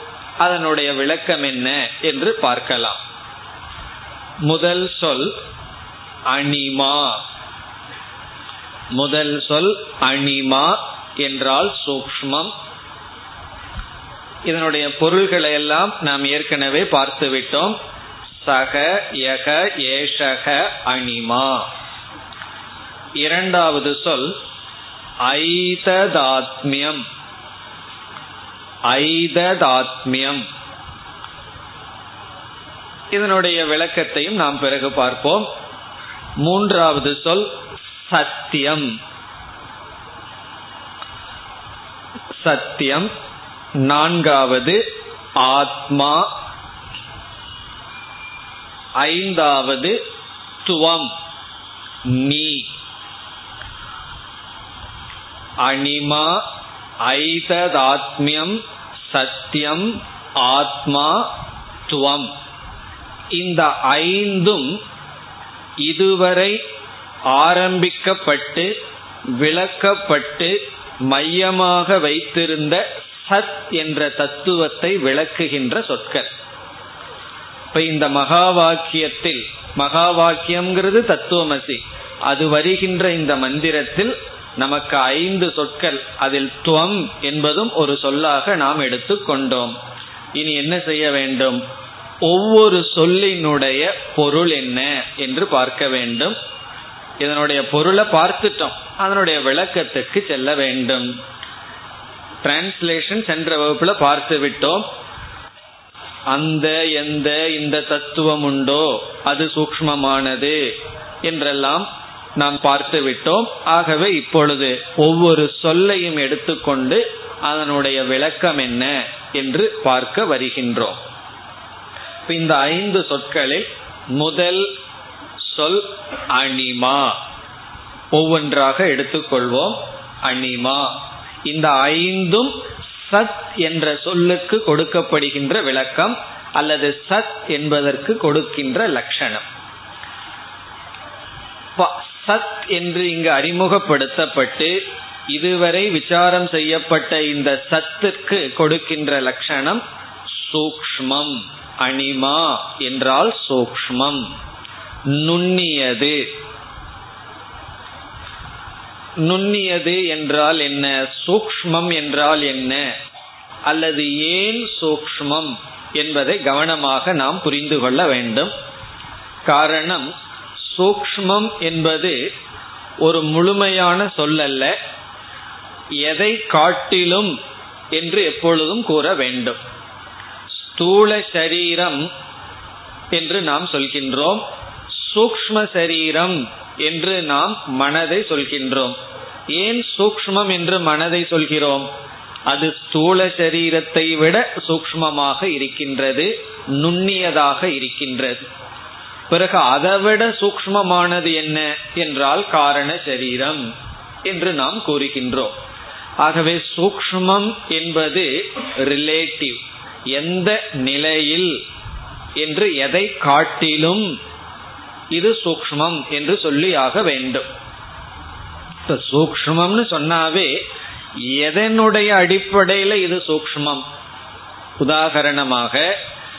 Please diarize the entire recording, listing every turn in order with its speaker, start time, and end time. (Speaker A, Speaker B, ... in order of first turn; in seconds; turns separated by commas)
Speaker A: 0.4-3.0, Speaker A: 4.4-5.3, Speaker A: 6.3-7.2, Speaker A: 8.9-12.5, Speaker A: 14.5-17.8, Speaker A: 18.4-21.7, Speaker A: 23.2-24.4, Speaker A: 25.2-27.0, Speaker A: 28.9-30.4, Speaker A: 33.1-35.5, Speaker A: 36.4-37.5, Speaker A: 38.0-38.9, Speaker A: 42.4-43.1, Speaker A: 43.8-44.8, Speaker A: 45.4-46.3, Speaker A: 49.0-50.0, Speaker A: 50.6-51.1, Speaker A: 52.0-52.7, Speaker A: 55.6-56.4, Speaker A: 57.0-61.3, Speaker A: 61.9-62.3, Speaker A: 63.4-64.8, Speaker A: 65.8-66.6, Speaker A: 67.3-68.7, Speaker A: 69.3-76.3, Speaker A: 77.7-89.7, Speaker A: 90.3-91.6, Speaker A: 92.2-96.3, Speaker A: 97.2-101.1, Speaker A: 102.4-104.8, Speaker A: 106.3-110.6, Speaker A: 111.2-121.0, Speaker A: 122.3-124.7, Speaker A: 125.4-127.2, Speaker A: 128.1-130.9, Speaker A: 131.4-139.4, Speaker A: 141.8-144.8, Speaker A: 145.3-149.8, Speaker A: 150.4-154.3, Speaker A: 155.1-156.2, Speaker A: 159.2-162.8, Speaker A: 163.7-168.5, Speaker A: 169.5-170.1, Speaker A: 170.7-172.2, Speaker A: 173.0-174.7, Speaker A: 176.0-177.3, Speaker A: 177.9-179.6, Speaker A: 180.6-182.1, Speaker A: 183.1-184.4, Speaker A: 184.9-188.9, Speaker A: 189.5-191.9, Speaker A: 192.5-198.4, Speaker A: 199.3-203.6, Speaker A: 204.2-205.5, Speaker A: 206.2-209.6, Speaker A: 210.1-211.6, Speaker A: 212.4-214.1, Speaker A: 215.1-217.4, Speaker A: 218.9-220.5, Speaker A: 221.2-223.8, Speaker A: 224.8-225.9